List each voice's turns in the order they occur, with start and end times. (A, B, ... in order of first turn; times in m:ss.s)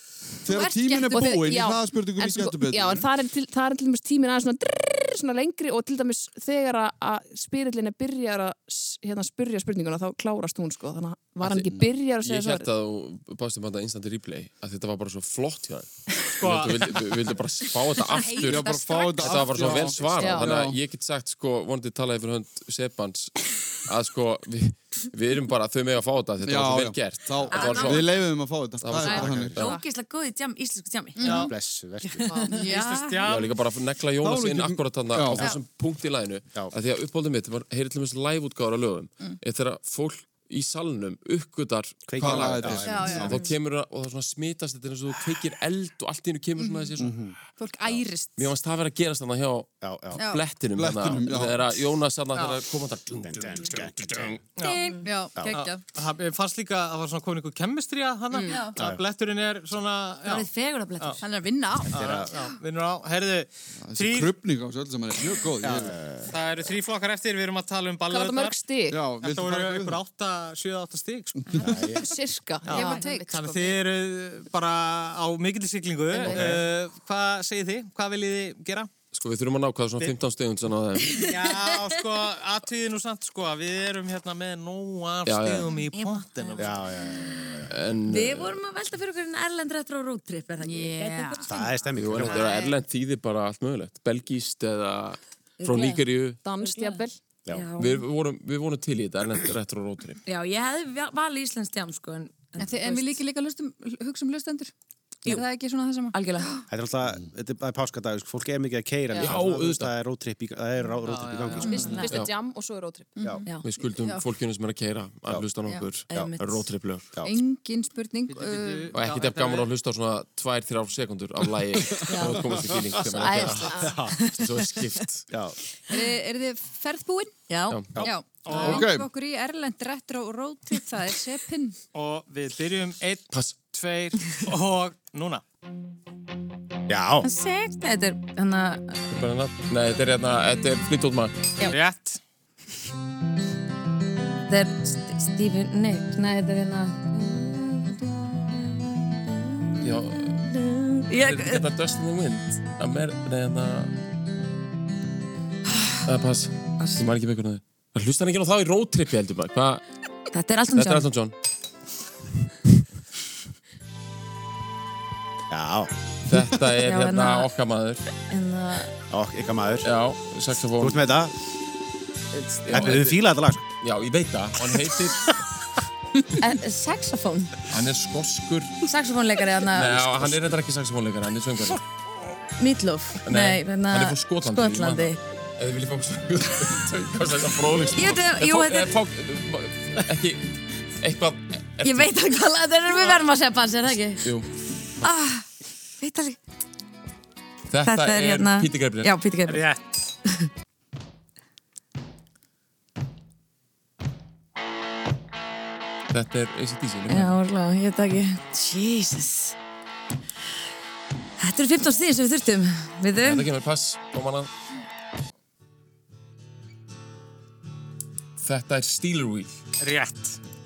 0:00.4-0:03.1 A
0:00.5-0:01.4 B
0:01.1-0:12.7 C
0:11.4-0:29.8 D
0:16.4-0:17.0 E
0:18.1-0:19.8 B
0:18.4-0:20.8 A
0:20.2-0:20.6 C
0:26.4-0:29.6 A
0:27.5-0:28.2 F
0:29.0-0:31.5 F
0:29.0-0:29.6 G
0:31.2-0:31.5 B
0:31.2-0:31.5 E
0:31.3-0:32.3 G
0:32.0-0:32.4 F
0:32.5-0:33.3 B
0:32.5-0:33.5 E
0:33.2-0:47.2 D
0:34.2-0:35.5 A
0:42.1-0:43.4 G
0:42.2-0:43.4 A
0:42.8-0:43.4 B
0:46.6-0:46.9 B
0:47.0-0:47.3 G
0:47.6-0:48.5 B
0:48.4-0:54.4 D
0:49.8-0:50.2 G
0:50.2-0:50.4 B
0:50.7-0:51.8 A
0:53.2-0:54.4 G
0:54.6-1:01.2 E
0:54.6-0:55.8 B
0:54.7-0:55.0 F
0:55.4-0:55.6 G
0:58.8-0:59.0 G
1:00.2-1:01.2 F
1:01.2-1:02.1 B
1:01.9-1:04.3 E
1:01.9-1:02.3 G
1:03.9-1:06.0 A
1:05.6-1:06.4 G
1:06.3-1:08.6 E
1:08.1-1:09.0 C
1:08.9-1:10.0 A
1:09.2-1:11.7 E
1:11.6-1:12.1 G
1:11.8-1:13.8 C
1:12.7-1:18.9 E
1:12.7-1:13.3 B
1:16.2-1:16.6 B
1:19.1-1:21.2 D
1:21.1-1:22.0 F
1:21.2-1:26.7 E
1:25.3-1:25.7 D
1:25.8-1:26.7 F
1:26.6-1:27.7 G
1:27.7-1:28.6 D
1:28.1-1:32.7 F
1:30.6-1:31.5 B
1:31.5-1:32.6 G
1:32.0-1:36.4 D
1:35.6-1:38.0 F
1:36.4-1:37.2 C
1:37.8-1:40.2 D
1:40.3-1:43.2 F
1:42.6-1:44.7 B
1:45.2-1:46.6 B
1:46.1-1:46.6 F
1:46.7-1:51.9 G
1:49.1-1:49.4 C
1:49.2-1:49.9 D
1:51.0-1:52.0 E
1:51.6-1:52.1 B
1:51.7-1:53.4 C
1:51.7-1:52.2 F
1:53.2-1:54.2 B
1:53.6-1:57.1 D
1:56.1-1:56.7 F
1:57.2-1:58.9 B
1:58.4-1:59.7 E
1:58.9-2:05.2 D
2:02.0-2:03.0 A
2:02.0-2:04.7 F
2:03.2-2:04.2 G
2:05.9-2:07.4 B
2:07.5-2:07.8 F
2:07.7-2:08.0 D
2:08.0-2:11.8 B
2:08.5-2:08.9 E
2:08.5-2:09.1 A
2:11.9-2:15.4 E
2:16.9-2:17.3 G
2:17.2-2:19.0 F
2:19.1-2:21.4 D
2:21.7-2:22.2 E
2:24.5-2:29.6 F
2:29.8-2:30.4 D
2:30.5-2:31.6 F
2:31.1-2:33.9 D
2:36.1-2:39.8 D
2:40.3-2:41.1 F
2:40.7-2:41.3 D
2:45.5-2:45.9 G
2:46.3-2:48.0 D
2:46.8-2:47.5 F
2:48.2-2:48.9 F
2:49.1-2:49.9 G
2:49.8-2:51.1 D
2:50.8-2:51.3 G
2:52.5-2:53.2 D
2:52.7-2:53.6 G
2:53.8-2:55.4 D
2:56.4-2:57.6 F
2:57.7-2:58.8 D
2:58.8-3:00.3 F
2:59.7-3:01.8 D
3:02.6-3:05.2 F
3:03.2-3:12.1 D
3:07.9-3:08.9 F
3:11.8-3:14.2 F
3:14.2-3:14.5 D
3:15.0-3:15.4 F
3:16.0-3:16.4 F
3:17.7-3:19.2 D
3:17.8-3:19.6 F
3:19.5-3:20.0 E
3:26.1-3:27.4 D
3:27.1-3:29.6 F
3:31.4-3:33.5 F
3:33.2-3:34.5 D
3:38.4-3:39.6 D
3:39.8-3:40.4 E